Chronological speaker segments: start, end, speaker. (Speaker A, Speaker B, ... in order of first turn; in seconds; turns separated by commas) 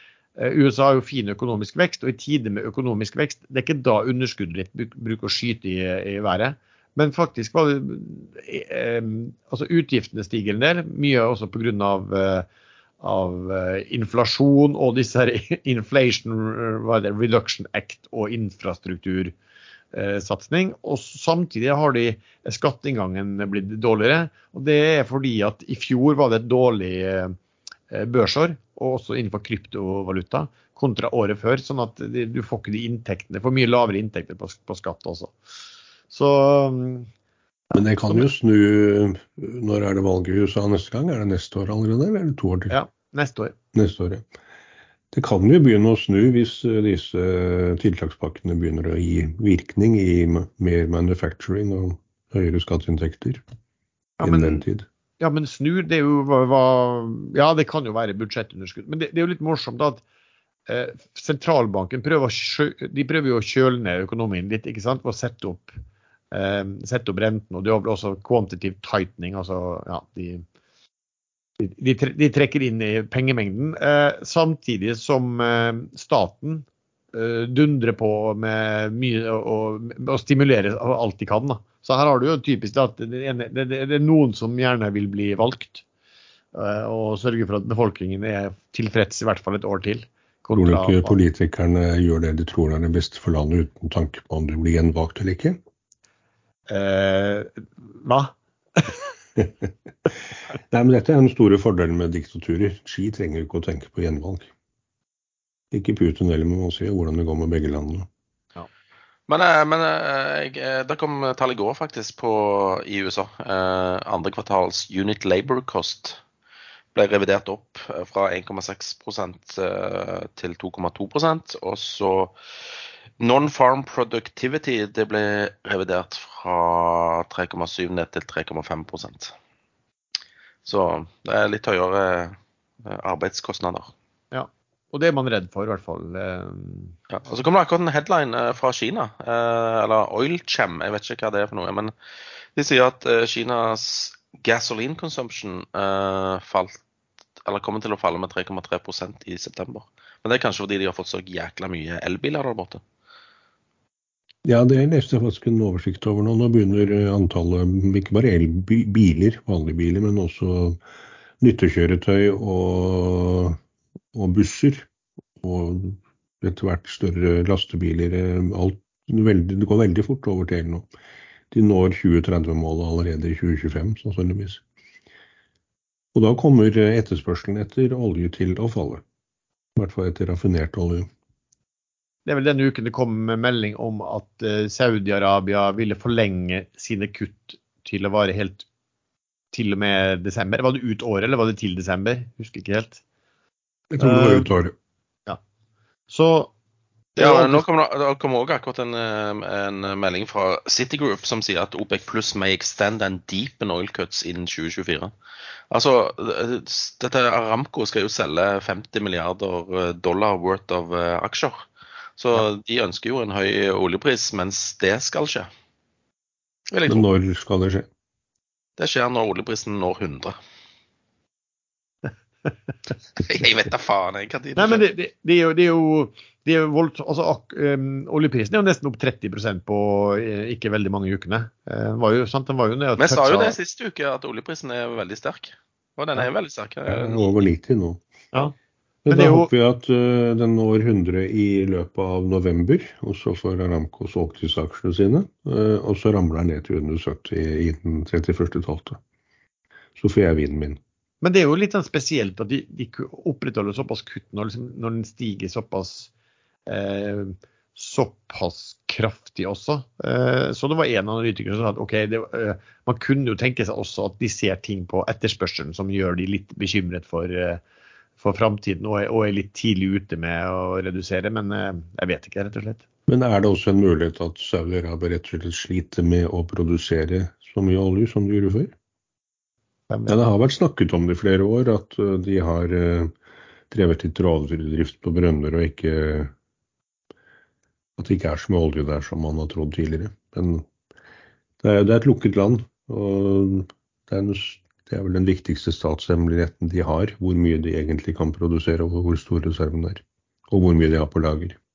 Speaker A: 0.4-12.5, Speaker A: 13.0-19.4, Speaker A: 19.9-27.4, Speaker A: 27.9-35.4, Speaker A: 36.1-37.1, Speaker A: 37.7-38.2, Speaker B: 37.7-42.8, Speaker A: 42.7-43.5, Speaker B: 43.7-44.2, Speaker B: 45.1-53.4, Speaker A: 54.2-54.6, Speaker B: 54.2-54.9, Speaker A: 55.2-60.0, Speaker A: 60.7-65.8, Speaker A: 66.3-70.5, Speaker A: 71.6-85.8, Speaker A: 86.5-91.2, Speaker B: 90.5-95.6, Speaker A: 96.7-99.0, Speaker B: 99.4-99.7, Speaker B: 100.7-104.5, Speaker B: 105.7-108.1, Speaker C: 109.3-116.2, Speaker C: 117.0-122.3, Speaker C: 123.2-129.3, Speaker C: 130.7-133.9, Speaker A: 134.3-136.9, Speaker C: 137.1-141.9, Speaker C: 142.6-146.8, Speaker C: 147.4-152.8, Speaker B: 154.4-160.8, Speaker B: 161.4-163.6, Speaker B: 164.1-164.9, Speaker B: 165.4-170.9, Speaker B: 171.5-174.6, Speaker B: 176.2-179.0, Speaker B: 179.8-181.1, Speaker A: 182.3-188.7, Speaker A: 189.5-193.0, Speaker B: 193.9-194.7, Speaker A: 194.0-194.5, Speaker A: 196.1-196.5, Speaker A: 197.2-197.7, Speaker C: 197.2-205.1, Speaker C: 205.7-211.7, Speaker C: 212.2-215.5, Speaker C: 216.7-217.1, Speaker B: 216.9-217.9, Speaker C: 218.8-220.3, Speaker C: 223.2-224.8, Speaker A: 224.6-233.6, Speaker C: 233.0-237.5, Speaker B: 236.9-238.0, Speaker B: 239.1-249.0, Speaker A: 239.1-239.5, Speaker B: 250.0-250.8, Speaker A: 251.2-256.1, Speaker A: 256.7-267.6, Speaker A: 268.2-272.8, Speaker B: 273.1-278.7, Speaker A: 279.9-280.2, Speaker B: 280.1-283.1, Speaker B: 283.7-286.3, Speaker B: 288.0-290.6, Speaker B: 291.6-301.6